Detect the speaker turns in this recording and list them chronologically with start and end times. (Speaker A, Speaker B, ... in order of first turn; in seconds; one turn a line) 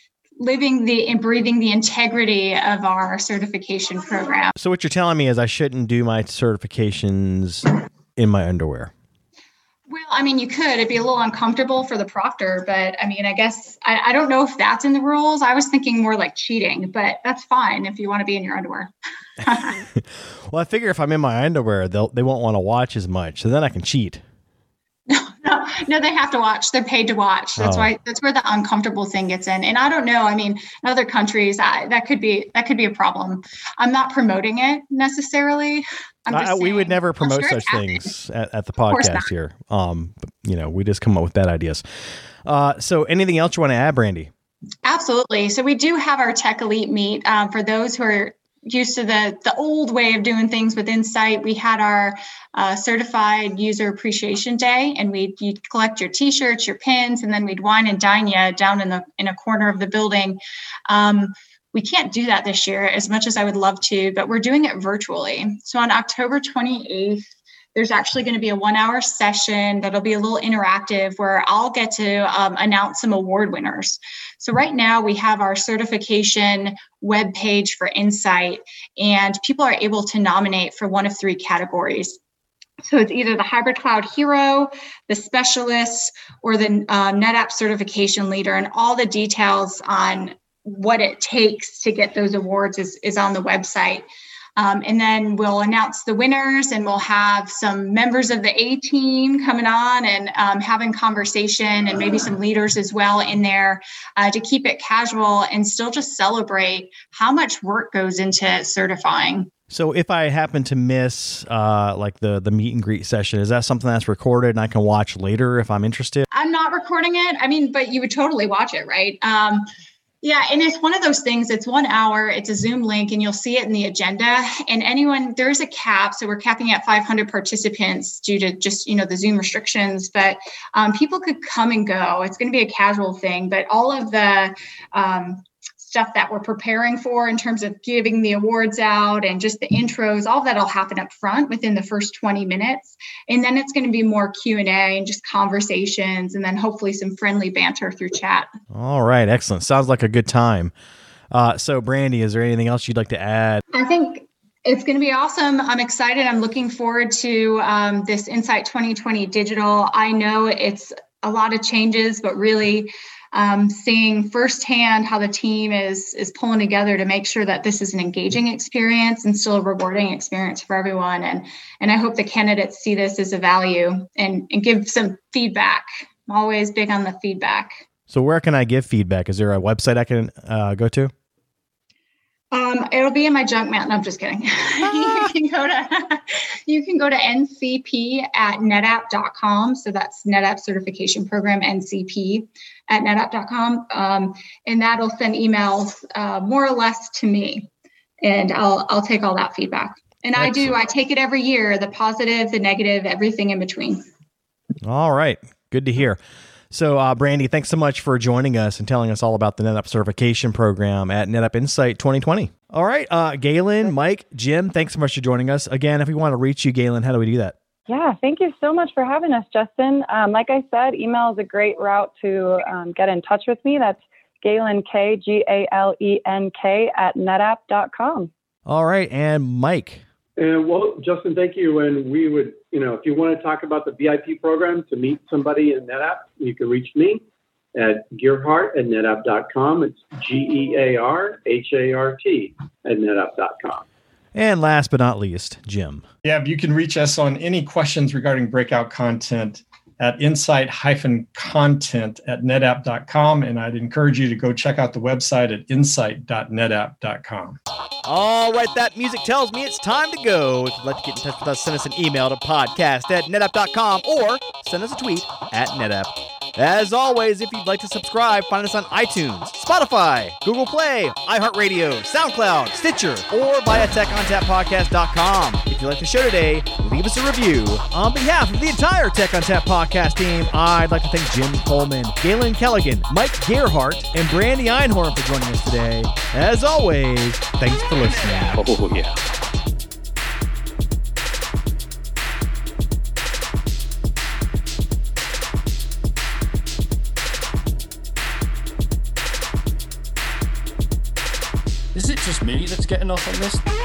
Speaker A: 0.4-4.5
Speaker B: 4.6-8.9
Speaker A: 9.9-18.9
Speaker A: 19.4-19.7
Speaker B: 19.9-24.2
Speaker A: 25.1-38.1
Speaker B: 27.6-27.9
Speaker B: 36.3-41.8
Speaker A: 38.9-39.3
Speaker B: 42.4-44.3
Speaker A: 44.8-82.2
Speaker A: 82.8-94.0
Speaker A: 94.6-109.5
Speaker B: 109.7-116.2
Speaker A: 116.3-119.7
Speaker A: 120.2-148.5
Speaker B: 148.7-150.7
Speaker B: 151.3-153.6
Speaker A: 153.7-177.8
Speaker B: 178.1-181.1
Speaker A: 182.5-197.7
Speaker A: 198.2-204.0
Speaker B: 200.3-200.8
Speaker B: 204.8-206.2
Speaker B: 206.7-217.5
Speaker C: 217.9-228.3
Speaker B: 228.7-230.0
Speaker D: 230.4-237.2
Speaker D: 237.7-243.8
Speaker B: 244.3-246.0
Speaker E: 246.2-257.6
Speaker B: 258.0-288.6
Speaker F: 288.7-289.1
Speaker F: 301.9-303.6